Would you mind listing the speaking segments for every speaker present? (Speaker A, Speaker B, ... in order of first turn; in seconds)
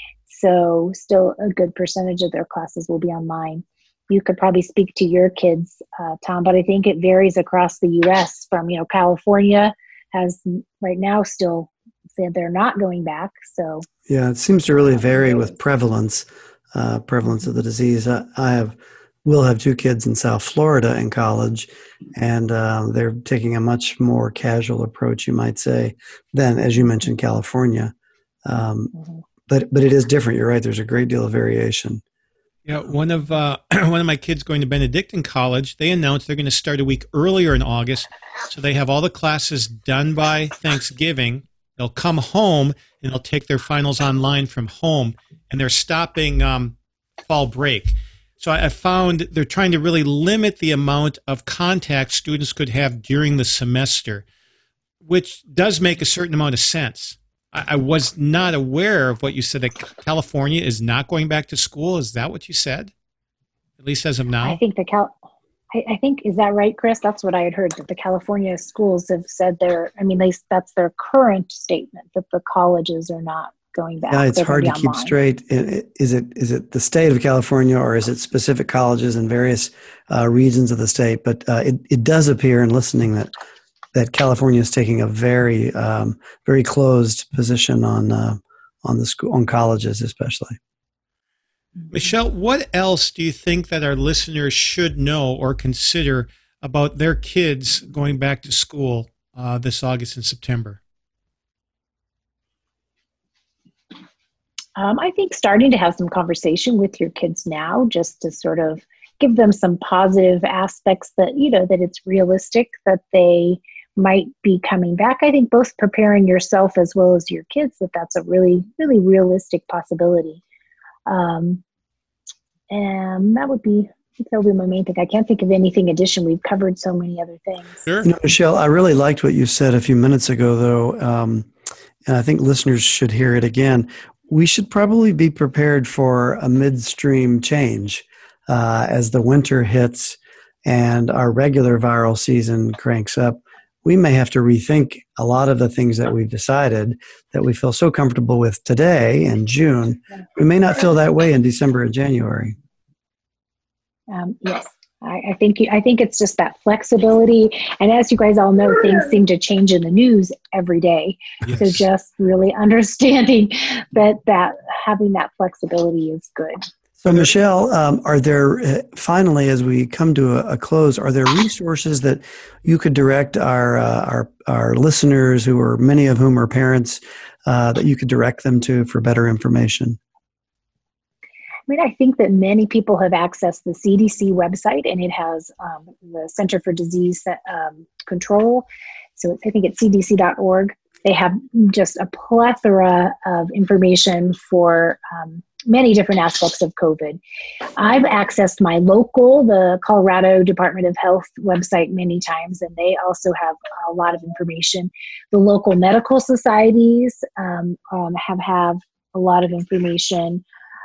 Speaker A: 0.3-13.9, 15.0-15.6, 64.4-65.1, 65.7-75.2, 104.8-120.4, 121.1-121.6, 122.7-127.9, 154.1-166.6, 181.7-197.2, 197.8-210.4
Speaker B: 14.1-27.9, 28.4-28.9, 29.5-32.0, 74.1-83.3, 83.9-90.6, 128.0-131.5, 132.1-152.6, 167.0-180.0
Speaker C: 32.7-54.2, 55.0-62.9, 63.8-64.6, 91.9-100.8, 127.9-128.1, 161.4-161.8